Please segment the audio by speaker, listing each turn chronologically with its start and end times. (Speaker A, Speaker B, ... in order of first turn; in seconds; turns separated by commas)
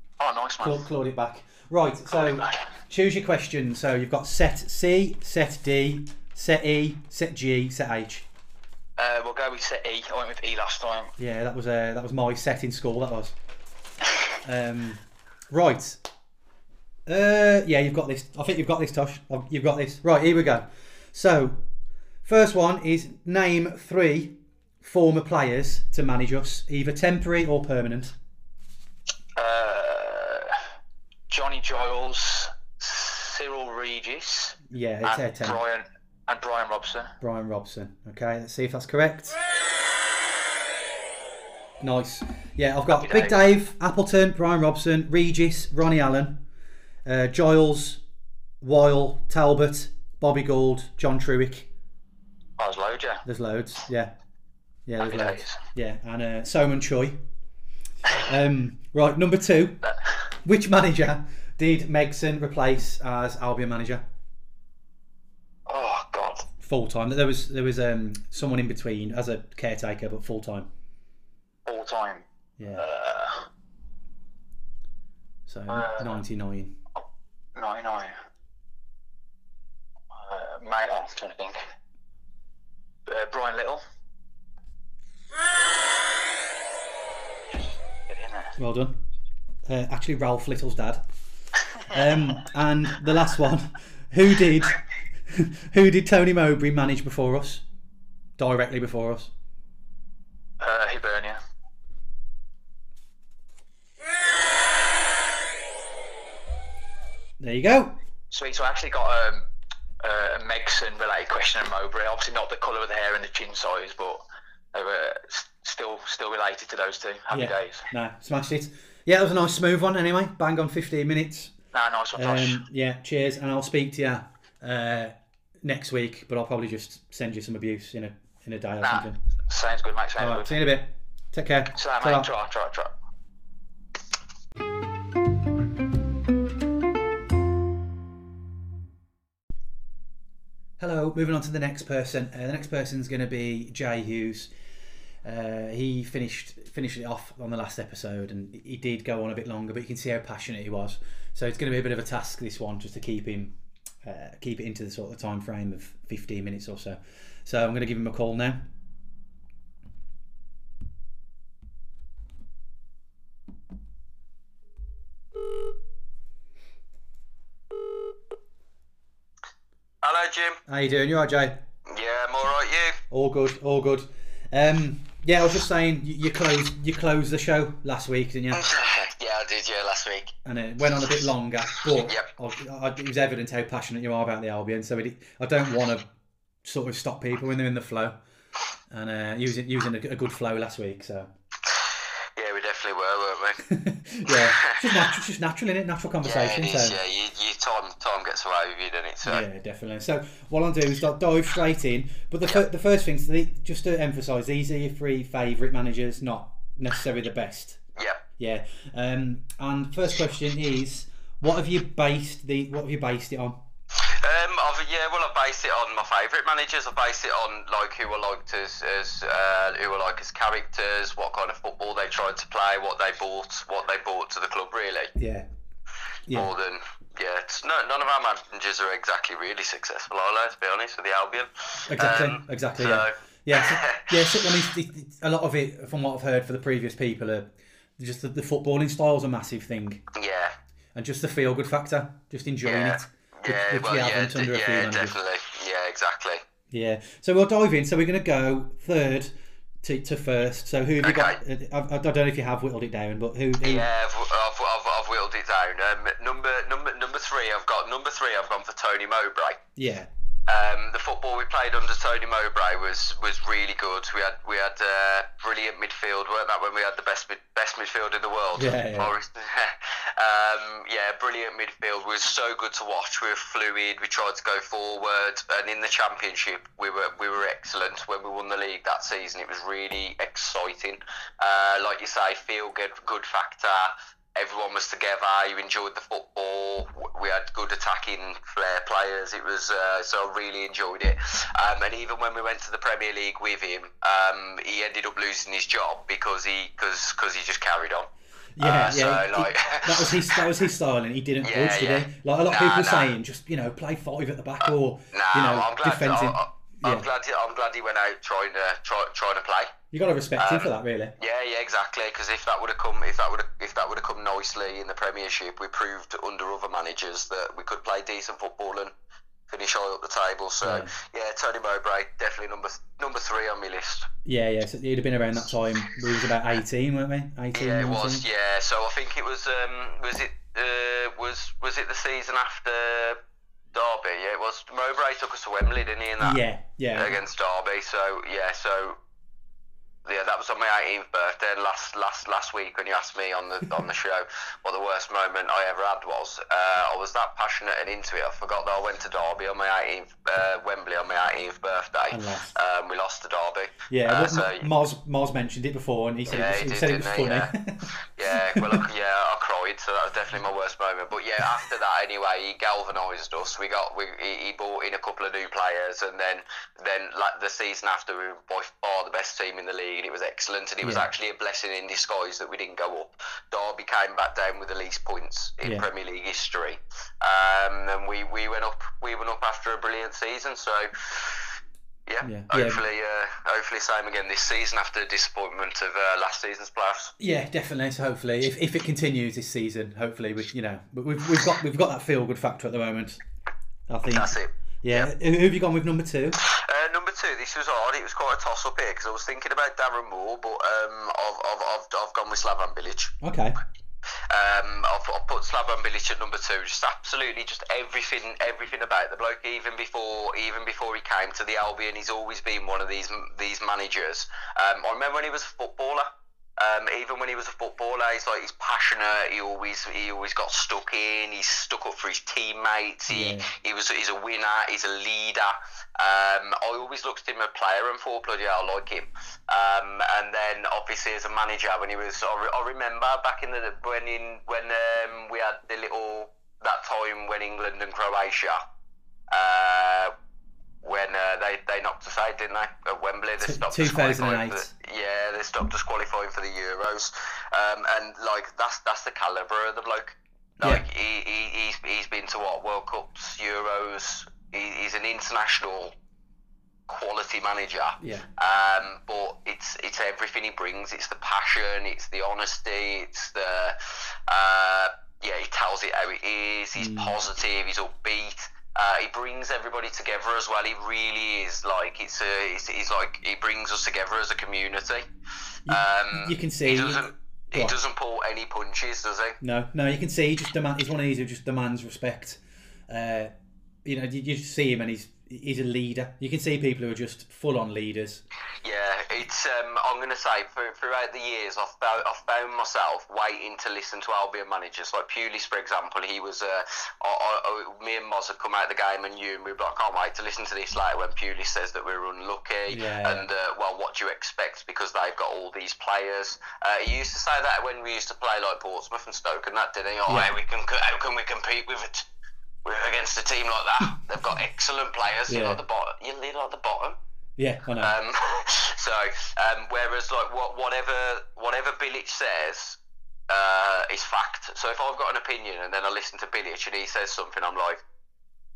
Speaker A: 0.2-0.9, Speaker B: 0.6-8.2, Speaker A: 2.1-2.7, Speaker A: 9.0-11.1, Speaker B: 11.2-13.3, Speaker B: 14.4-16.0, Speaker B: 17.1-21.6, Speaker B: 22.2-28.1, Speaker A: 29.4-30.6, Speaker A: 31.3-37.1, Speaker B: 34.7-35.6, Speaker B: 37.2-39.4, Speaker B: 41.8-46.4, Speaker A: 43.0-43.4, Speaker B: 47.0-48.0, Speaker B: 48.6-51.7, Speaker A: 52.6-53.2, Speaker B: 53.2-54.1, Speaker B: 54.9-57.2, Speaker A: 55.0-55.6, Speaker B: 58.2-59.8, Speaker A: 59.8-60.3, Speaker B: 60.4-64.0, Speaker A: 65.7-66.4, Speaker B: 66.6-70.7, Speaker A: 71.6-72.2, Speaker B: 72.6-72.9, Speaker A: 72.8-73.5, Speaker B: 75.5-76.7, Speaker A: 75.7-76.1, Speaker A: 77.5-78.2, Speaker A: 80.1-81.6, Speaker A: 83.0-83.8, Speaker A: 87.5-88.5, Speaker B: 88.6-89.0, Speaker B: 89.7-91.0, Speaker B: 91.8-97.6, Speaker B: 98.4-99.3, Speaker A: 100.6-101.4, Speaker B: 107.4-107.9, Speaker A: 108.3-109.5, Speaker A: 110.0-114.2, Speaker A: 114.7-117.9, Speaker B: 117.3-121.5, Speaker A: 121.7-122.6, Speaker B: 122.1-129.2, Speaker A: 128.8-130.5, Speaker B: 130.2-132.3, Speaker A: 131.7-132.9, Speaker B: 140.8-144.5, Speaker B: 145.2-158.7, Speaker C: 170.0-170.6, Speaker B: 170.7-171.6, Speaker C: 171.9-173.0, Speaker B: 173.1-178.6, Speaker C: 178.5-180.3, Speaker B: 180.4-186.1, Speaker B: 186.6-188.2, Speaker B: 188.9-191.3, Speaker C: 192.4-193.6, Speaker B: 193.7-197.0, Speaker C: 194.3-195.1, Speaker C: 196.2-199.4, Speaker B: 199.2-207.8, Speaker C: 208.0-208.2, Speaker B: 208.4-213.6, Speaker C: 214.0-225.1, Speaker B: 225.2-225.4, Speaker C: 226.3-234.5, Speaker B: 231.9-240.1, Speaker C: 240.1-240.5, Speaker B: 240.9-245.2, Speaker C: 242.6-246.4, Speaker B: 246.7-253.9, Speaker C: 251.0-251.4, Speaker C: 253.6-259.6, Speaker B: 259.8-260.1, Speaker C: 260.5-298.1, Speaker B: 268.6-269.1, Speaker B: 298.6-307.1, Speaker C: 298.6-300.4, Speaker C: 301.4-303.1, Speaker C: 304.6-309.8, Speaker B: 309.9-311.1, Speaker C: 310.4-318.9, Speaker C: 319.5-324.1, Speaker B: 320.6-320.9, Speaker B: 324.2-328.2, Speaker C: 327.5-333.2, Speaker C: 333.7-336.4, Speaker B: 336.2-337.2, Speaker C: 336.9-339.0, Speaker C: 340.0-354.7, Speaker B: 352.1-352.6, Speaker B: 353.9-357.9, Speaker C: 356.2-381.4, Speaker B: 358.5-358.9, Speaker B: 370.8-371.1, Speaker C: 382.1-387.1, Speaker B: 382.2-382.8, Speaker B: 387.2-393.2, Speaker B: 393.9-396.4, Speaker C: 394.1-395.1, Speaker C: 396.4-403.1, Speaker B: 403.2-403.6, Speaker C: 404.3-438.6, Speaker B: 423.1-423.5, Speaker C: 439.3-440.1, Speaker C: 440.8-455.9, Speaker B: 443.4-444.7, Speaker C: 456.9-475.1, Speaker B: 458.0-458.3, Speaker B: 466.8-467.1, Speaker B: 475.6-477.8, Speaker C: 475.7-479.4, Speaker B: 479.4-483.3, Speaker B: 483.8-488.2, Speaker C: 488.6-512.0, Speaker B: 502.7-503.3, Speaker B: 510.1-510.3, Speaker C: 512.6-517.0, Speaker B: 515.3-515.6, Speaker B: 517.4-517.9, Speaker C: 517.8-522.8, Speaker C: 523.3-527.8